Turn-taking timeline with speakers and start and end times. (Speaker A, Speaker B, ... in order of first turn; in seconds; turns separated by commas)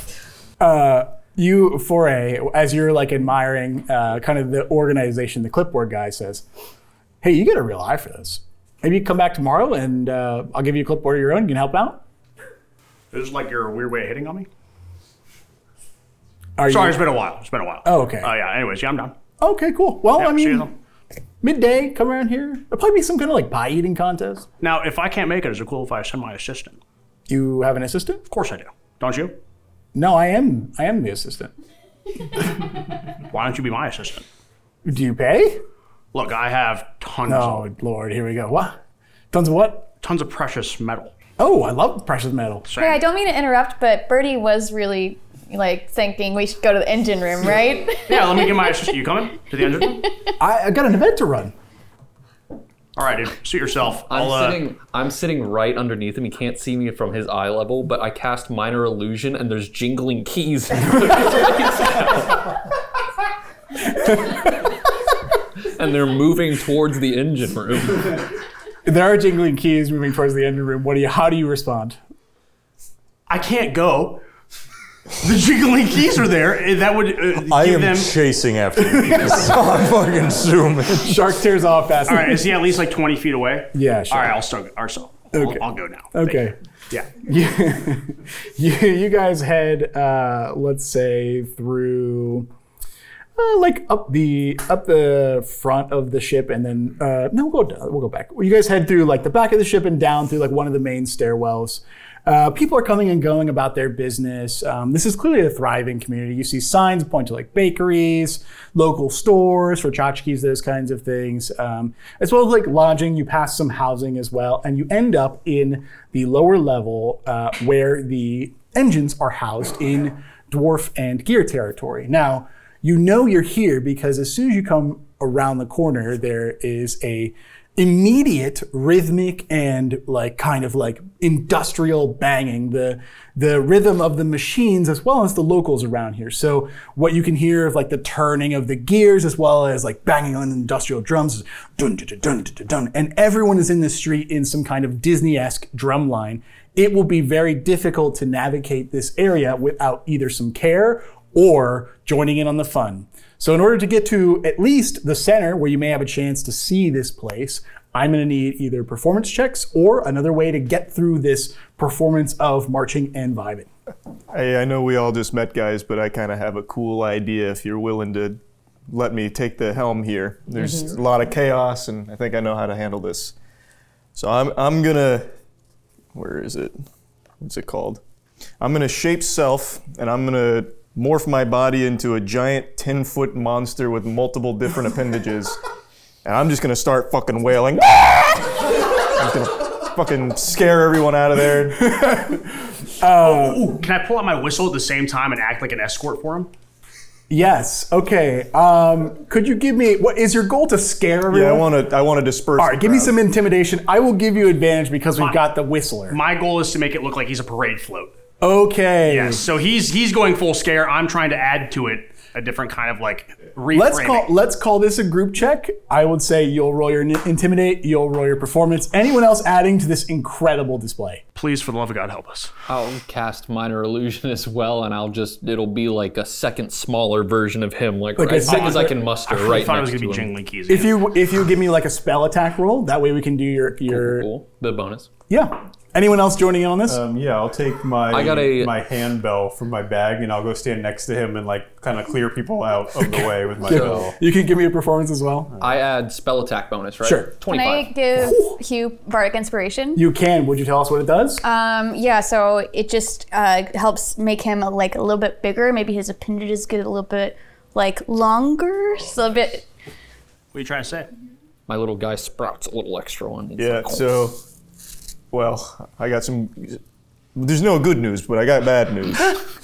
Speaker A: 0.6-6.4, Speaker A: 7.2-12.0, Speaker B: 13.1-14.5, Speaker A: 16.6-17.0, Speaker B: 16.7-19.2, Speaker A: 17.9-18.3, Speaker A: 19.4-20.7, Speaker B: 20.2-20.7, Speaker A: 21.4-24.5, Speaker B: 24.6-26.8, Speaker A: 27.3-28.2, Speaker B: 28.3-29.4, Speaker A: 29.9-31.5, Speaker B: 33.3-34.2, Speaker A: 34.9-35.6, Speaker B: 36.1-37.7, Speaker A: 37.3-38.8, Speaker A: 39.3-39.9, Speaker B: 40.0-41.1, Speaker A: 41.4-42.7, Speaker B: 42.7-43.0, Speaker C: 42.8-48.9, Speaker B: 48.1-50.1, Speaker A: 50.4-51.5, Speaker B: 53.0-54.7, Speaker D: 54.1-62.4, Speaker D: 65.7-68.2, Speaker A: 68.8-72.0, Speaker B: 73.3-74.2, Speaker B: 75.2-78.2, Speaker E: 77.3-81.2, Speaker A: 78.8-79.5, Speaker A: 81.0-82.6, Speaker B: 82.1-87.2, Speaker A: 83.7-84.4, Speaker A: 85.3-86.5, Speaker A: 87.2-92.5, Speaker A: 93.4-163.7, Speaker F: 164.3-173.3, Speaker F: 174.2-175.3, Speaker F: 176.1-176.8, Speaker F: 177.4-178.0, Speaker F: 178.6-185.6, Speaker F: 186.2-191.9, Speaker A: 191.7-193.8, Speaker B: 193.2-196.5, Speaker A: 197.3-201.7, Speaker F: 201.3-203.2, Speaker A: 202.6-206.2, Speaker B: 205.2-205.4, Speaker B: 206.1-208.1, Speaker A: 208.4-209.4, Speaker B: 209.1-214.3, Speaker A: 213.7-221.2, Speaker B: 221.3-222.5, Speaker D: 222.7-230.3, Speaker A: 228.2-228.9, Speaker B: 228.4-231.0, Speaker A: 230.7-234.3, Speaker D: 233.9-235.1, Speaker A: 235.3-237.0, Speaker G: 236.9-244.2, Speaker D: 238.1-238.8, Speaker A: 243.2-245.5, Speaker D: 243.7-244.1, Speaker D: 245.6-248.0, Speaker A: 247.0-247.4, Speaker C: 247.5-250.0, Speaker A: 248.2-248.6, Speaker A: 250.0-251.4, Speaker C: 251.4-259.7, Speaker B: 260.5-261.1, Speaker D: 261.7-264.1, Speaker F: 263.6-264.4, Speaker F: 265.3-266.8, Speaker F: 267.4-269.4